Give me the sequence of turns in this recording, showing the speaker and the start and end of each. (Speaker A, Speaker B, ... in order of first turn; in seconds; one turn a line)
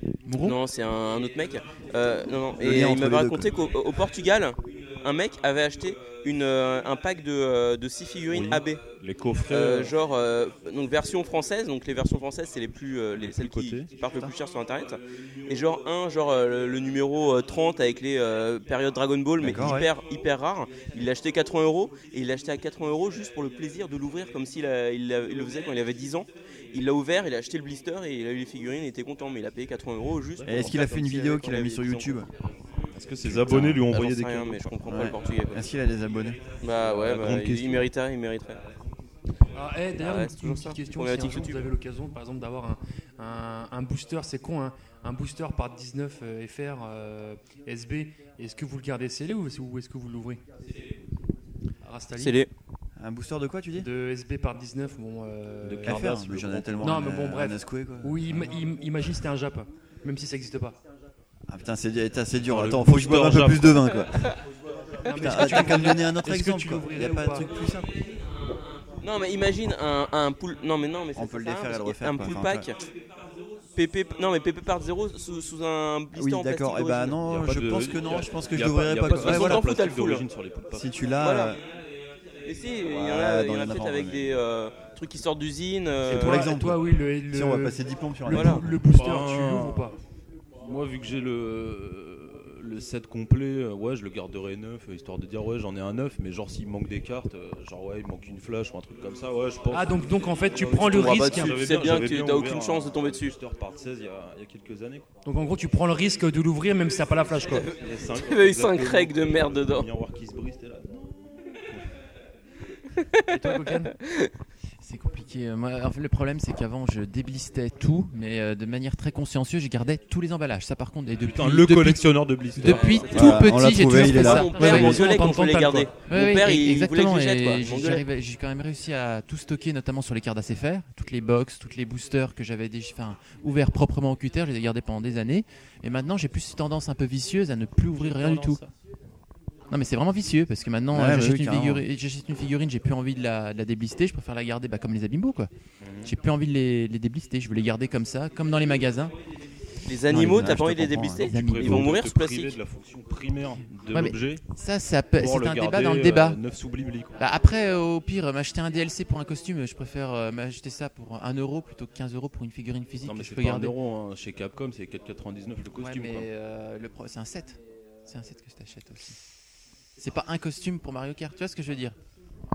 Speaker A: 0.3-0.6
Speaker B: 0.4-8.8
Speaker C: 2.6-3.5
Speaker D: 8.3-9.9
Speaker B: 9.5-32.1
Speaker D: 13.2-13.9
Speaker C: 19.4-19.9
Speaker D: 19.4-19.8
Speaker D: 30.4-30.8
Speaker C: 30.5-32.3
Speaker D: 33.0-34.8
Speaker C: 33.2-33.8
Speaker B: 33.9-35.6
Speaker C: 34.9-36.4
Speaker B: 36.6-38.6
Speaker D: 36.8-37.9
Speaker E: 39.5-50.4
Speaker B: 40.0-41.7
Speaker E: 51.9-52.4
Speaker B: 52.2-52.5
Speaker C: 53.0-53.9
Speaker E: 53.7-56.1
Speaker D: 55.6-57.1
Speaker C: 55.8-58.6
Speaker E: 56.8-60.8
Speaker C: 61.5-64.3
Speaker D: 62.5-63.9
Speaker E: 65.0-67.5
Speaker C: 65.1-67.9
Speaker B: 69.0-72.8
Speaker C: 71.1-72.7
Speaker B: 73.8-77.1
Speaker C: 76.1-79.6
Speaker D: 77.2-80.9
Speaker B: 79.1-80.2
Speaker C: 80.7-81.6
Speaker B: 81.2-81.5
Speaker B: 82.5-86.5
Speaker C: 82.8-84.3
Speaker C: 86.1-88.8
Speaker E: 86.1-90.0
Speaker B: 88.3-88.6
Speaker D: 88.8-89.9
Speaker D: 90.6-105.1
Speaker E: 99.7-101.5
Speaker B: 100.7-103.3
Speaker E: 105.2-107.7
Speaker B: 107.5-109.9
Speaker D: 107.8-111.9
Speaker B: 113.0-114.3
Speaker E: 113.3-113.9
Speaker A: 114.8-125.0
Speaker D: 121.2-123.4
Speaker B: 122.6-128.0
Speaker C: 123.1-124.8
Speaker E: 124.0-125.9
Speaker A: 126.1-138.6
Speaker D: 137.9-138.7
Speaker A: 139.7-145.5
Speaker C: 140.9-141.8
Speaker D: 145.8-146.1
Speaker A: 146.1-149.1
Speaker B: 149.9-152.6
Speaker C: 150.1-151.3
Speaker A: 151.2-151.9
Speaker D: 151.2-154.4
Speaker A: 153.9-156.4
Speaker D: 155.1-157.2
Speaker A: 157.2-163.7
Speaker D: 163.1-166.3
Speaker A: 165.7-169.1
Speaker A: 170.0-171.9